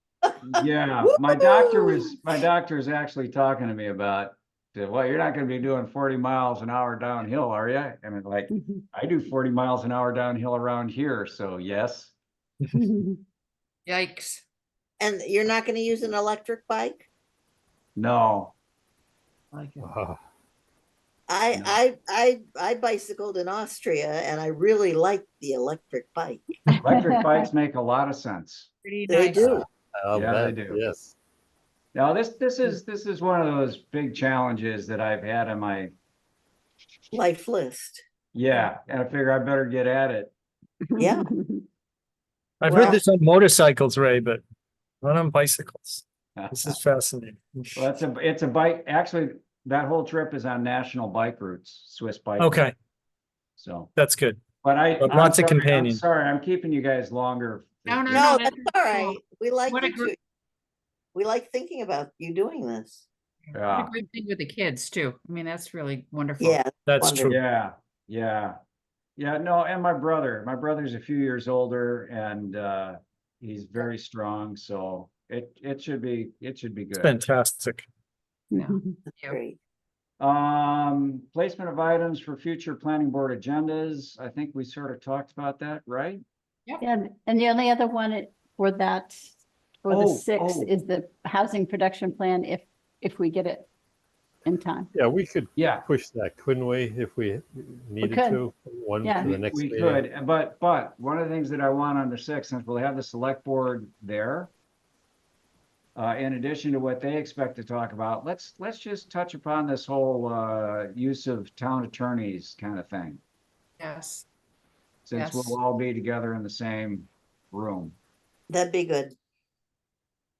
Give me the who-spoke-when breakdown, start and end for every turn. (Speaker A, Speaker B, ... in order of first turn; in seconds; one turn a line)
Speaker A: 0.4-12.1
Speaker B: 1.0-2.1
Speaker C: 8.5-8.8
Speaker C: 12.7-13.2
Speaker D: 13.8-14.4
Speaker B: 15.0-17.1
Speaker A: 17.9-18.5
Speaker D: 19.5-19.9
Speaker E: 19.8-20.2
Speaker B: 21.3-26.5
Speaker A: 21.5-21.8
Speaker C: 26.7-27.4
Speaker A: 26.8-28.7
Speaker D: 28.8-29.4
Speaker B: 29.1-29.6
Speaker E: 29.4-31.1
Speaker A: 30.1-30.8
Speaker A: 31.9-35.9
Speaker B: 37.1-38.0
Speaker A: 38.3-40.3
Speaker C: 40.9-41.6
Speaker B: 41.0-41.3
Speaker F: 42.6-44.4
Speaker B: 42.6-43.0
Speaker F: 45.0-47.8
Speaker A: 46.4-46.8
Speaker A: 47.8-52.6
Speaker F: 52.4-52.7
Speaker A: 53.6-53.9
Speaker F: 53.9-54.4
Speaker A: 54.6-58.3
Speaker F: 55.0-56.0
Speaker D: 57.9-60.1
Speaker B: 58.1-60.1
Speaker B: 61.1-63.0
Speaker D: 63.5-66.6
Speaker A: 63.5-63.9
Speaker B: 66.4-67.4
Speaker F: 66.8-67.4
Speaker A: 67.2-68.6
Speaker A: 69.2-77.2
Speaker F: 77.0-77.8
Speaker C: 78.5-79.0
Speaker D: 78.5-79.4
Speaker B: 79.2-79.6
Speaker A: 80.2-86.2
Speaker C: 86.8-89.3
Speaker C: 89.8-93.7
Speaker A: 89.9-90.7
Speaker C: 94.4-94.9
Speaker E: 94.9-100.0
Speaker A: 95.5-95.9
Speaker C: 98.0-98.4
Speaker C: 99.0-99.3
Speaker A: 99.2-104.5
Speaker A: 106.0-113.2
Speaker D: 113.8-114.2
Speaker A: 115.0-118.0
Speaker D: 115.1-115.6
Speaker B: 118.5-119.1